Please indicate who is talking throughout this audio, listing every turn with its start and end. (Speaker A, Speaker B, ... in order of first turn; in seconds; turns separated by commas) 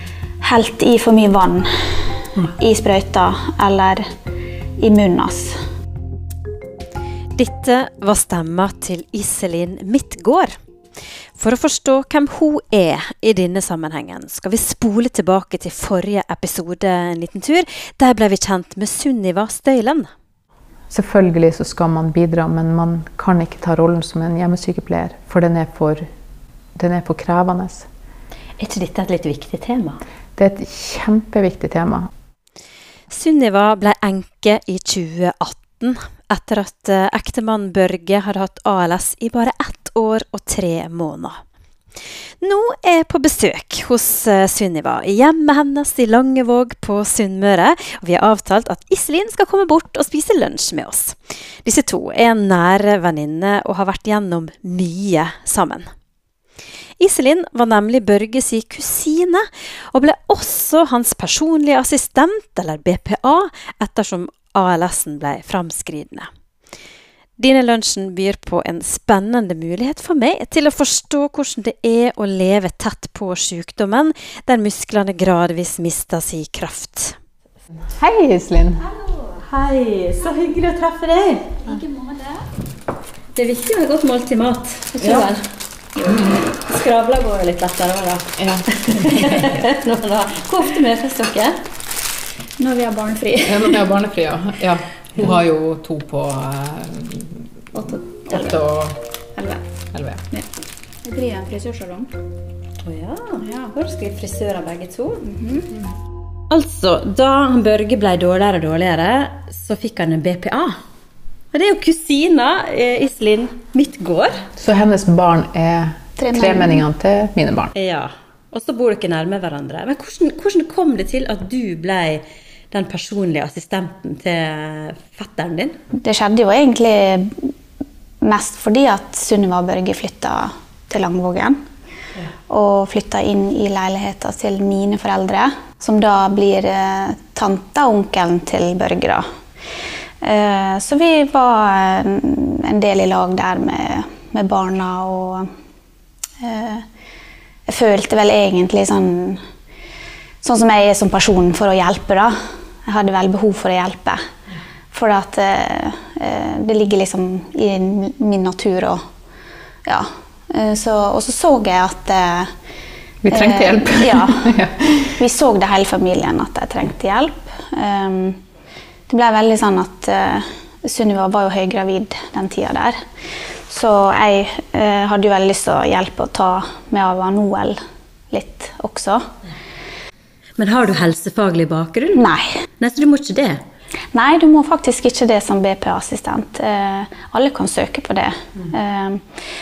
Speaker A: 0.4-1.7, Speaker A: 2.4-4.0, Speaker A: 4.8-5.5, Speaker B: 7.4-10.5, Speaker B: 11.4-20.1, Speaker C: 20.9-26.1, Speaker C: 26.8-27.9, Speaker B: 28.6-30.0, Speaker C: 30.4-32.1, Speaker B: 33.1-41.4, Speaker B: 42.4-55.9, Speaker B: 57.0-66.3, Speaker B: 67.4-77.2, Speaker C: 78.0-78.9, Speaker B: 79.4-81.6, Speaker A: 82.0-82.2, Speaker B: 83.3-85.4, Speaker B: 86.4-91.5, Speaker C: 88.4-88.7, Speaker A: 92.6-93.8, Speaker C: 93.5-97.4, Speaker A: 97.8-98.6, Speaker C: 98.2-99.0, Speaker A: 99.3-99.6, Speaker C: 99.9-100.2, Speaker A: 101.0-102.1, Speaker B: 102.8-105.2, Speaker A: 103.4-103.7, Speaker A: 105.2-105.7, Speaker B: 106.5-110.8, Speaker B: 111.5-114.5, Speaker C: 114.6-117.7, Speaker A: 116.2-116.8, Speaker B: 117.8-125.8, Speaker A: 126.0-127.5, Speaker A: 128.2-131.6, Speaker A: 132.5-139.2, Speaker A: 140.2-145.5, Speaker A: 146.4-146.8, Speaker A: 147.7-149.4, Speaker A: 150.4-152.3, Speaker A: 152.9-154.2, Speaker A: 154.9-159.0, Speaker A: 159.9-162.5, Speaker C: 163.2-165.1, Speaker A: 163.3-164.5, Speaker A: 165.2-168.4, Speaker A: 169.1-173.0, Speaker A: 173.7-177.8, Speaker A: 178.3-179.3, Speaker B: 180.6-182.3, Speaker A: 182.1-182.5, Speaker B: 182.8-183.6, Speaker A: 184.1-189.2